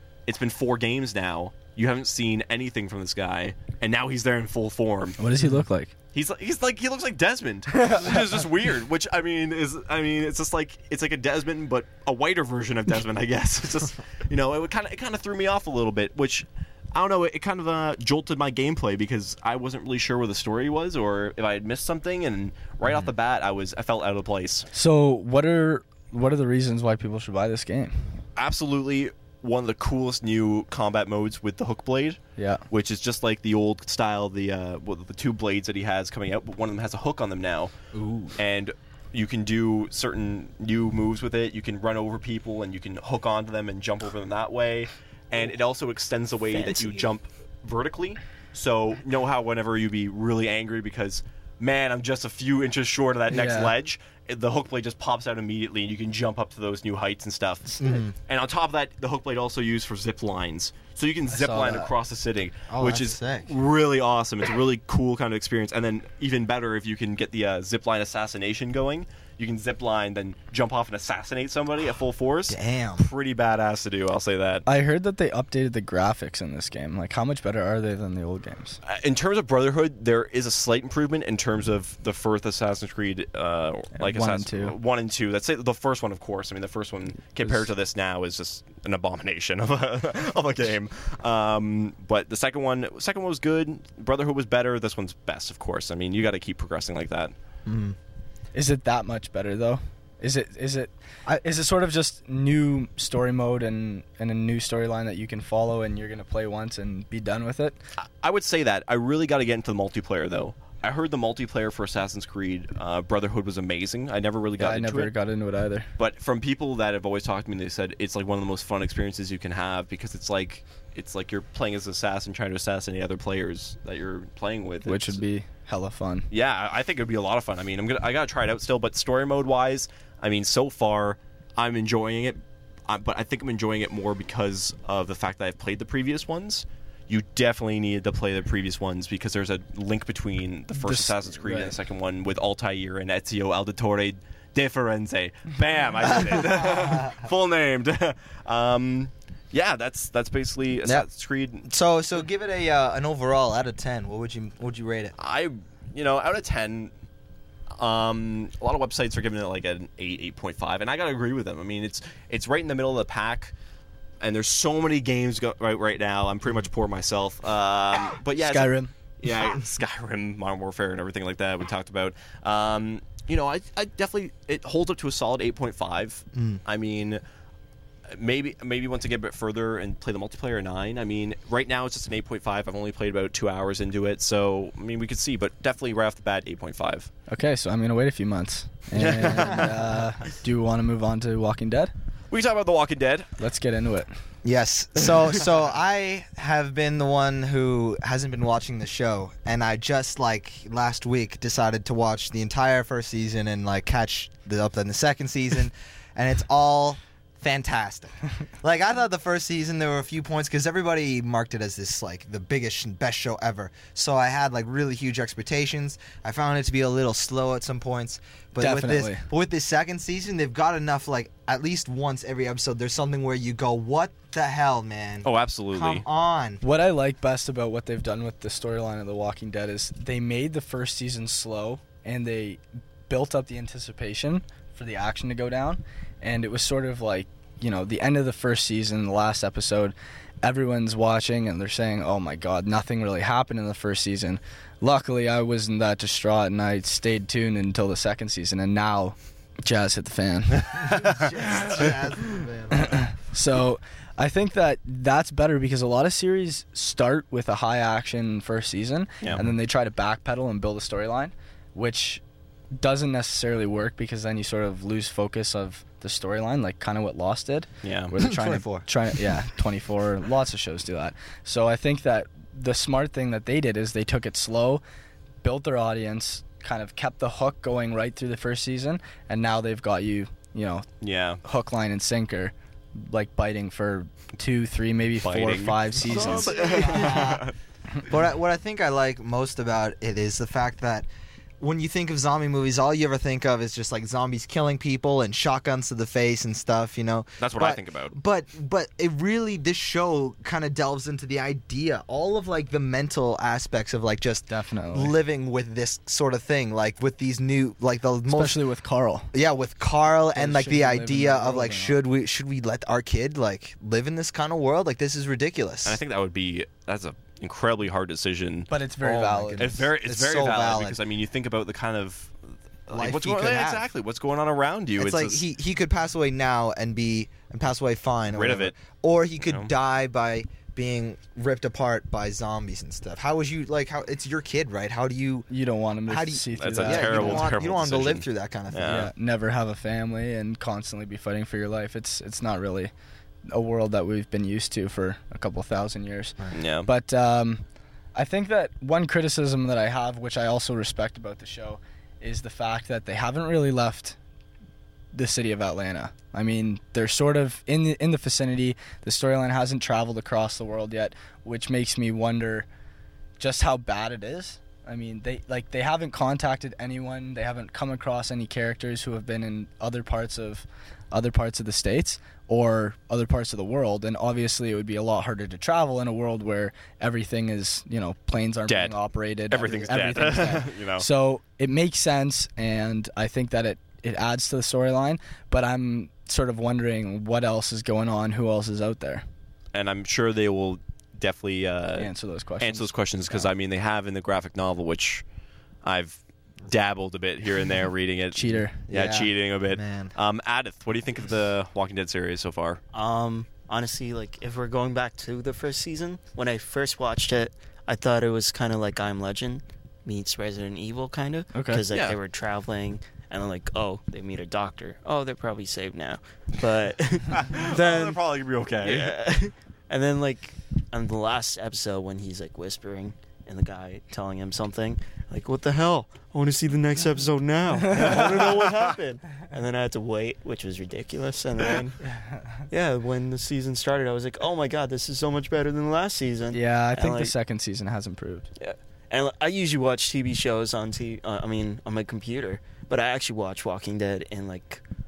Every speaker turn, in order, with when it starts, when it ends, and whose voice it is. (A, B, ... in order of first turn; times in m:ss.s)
0:00.3-0:05.2 A
0:05.2-0:05.9 B
0:06.1-0:24.7 A
0:24.7-0:28.0 B
0:28.4-0:37.7 A
0:32.4-0:32.6 B
0:37.9-0:38.4 C
0:38.4-1:14.6 A
0:46.5-0:47.1 D
0:53.3-0:53.8 B
0:57.8-0:58.1 C
1:01.3-1:01.9 B
1:02.7-1:03.5 C
1:12.5-1:13.1 C
1:14.7-1:18.8 B
1:18.8-1:37.3 A
1:24.0-1:24.8 B
1:37.7-1:38.0 C
1:38.5-1:47.8 B
1:48.2-1:55.1 A
1:54.6-1:55.9 B
1:56.0-2:05.2 A
2:04.8-2:06.3 B
2:06.3-2:31.7 A
2:20.7-2:21.8 B
2:26.1-2:27.1 C
2:31.6-2:35.1 C
2:35.2-2:36.9 A
2:37.8-2:43.5 A
2:44.2-2:57.2 A
2:48.3-2:48.9 B
2:56.4-2:56.6 C
2:58.1-3:07.1 A
3:07.3-3:11.9 B
3:09.0-3:09.7 C
3:12.3-3:13.3 A
3:13.4-3:14.1 B
3:14.4-3:46.6 C
3:38.6-3:39.2 B
3:45.2-3:46.0 A
3:46.6-4:10.9 B
4:10.8-4:13.0 C
4:12.8-4:22.2 B
4:22.8-4:34.8 B
4:27.8-4:28.1 A
4:28.2-4:28.9 C
4:35.4-4:40.9 B
4:41.0-4:41.4 A
4:41.4-4:46.6 B
4:45.2-4:47.5 A
4:46.0-4:47.5 C
4:48.1-4:51.1 C
4:51.6-5:08.6 C
4:57.4-4:58.2 A
5:04.5-5:05.2 B
5:08.3-5:09.3 B
5:09.3-5:16.0 C
5:10.3-5:12.0 B
5:15.8-5:18.7 A
5:18.7-5:19.8 B
5:19.0-5:21.0 C
5:19.6-5:22.3 A
5:22.9-5:25.4 A
5:22.9-5:23.8 C
5:25.0-5:35.5 C
5:28.3-5:28.8 A
5:29.4-5:29.7 A
5:35.5-5:37.5 B
5:36.0-5:39.1 C
5:36.6-5:39.1 A
5:38.8-5:42.9 B
5:43.5-5:47.6 B
5:46.5-5:46.9 A
5:48.2-5:54.2 B
5:55.1-6:02.7 B
6:03.4-6:29.2 B
6:18.7-6:19.0 A
6:19.5-6:21.1 A
6:19.6-6:20.1 C
6:29.7-6:35.2 A
6:32.0-6:33.4 B
6:35.8-6:42.8 A
6:38.3-6:38.8 B
6:38.9-6:40.1 C
6:42.9-6:58.2 D
6:51.5-6:51.8 B
6:51.9-6:52.2 A
6:57.3-6:59.2 A
6:58.8-7:12.0 D
7:12.7-7:17.3 D
7:16.5-7:18.5 B
7:18.6-7:24.8 D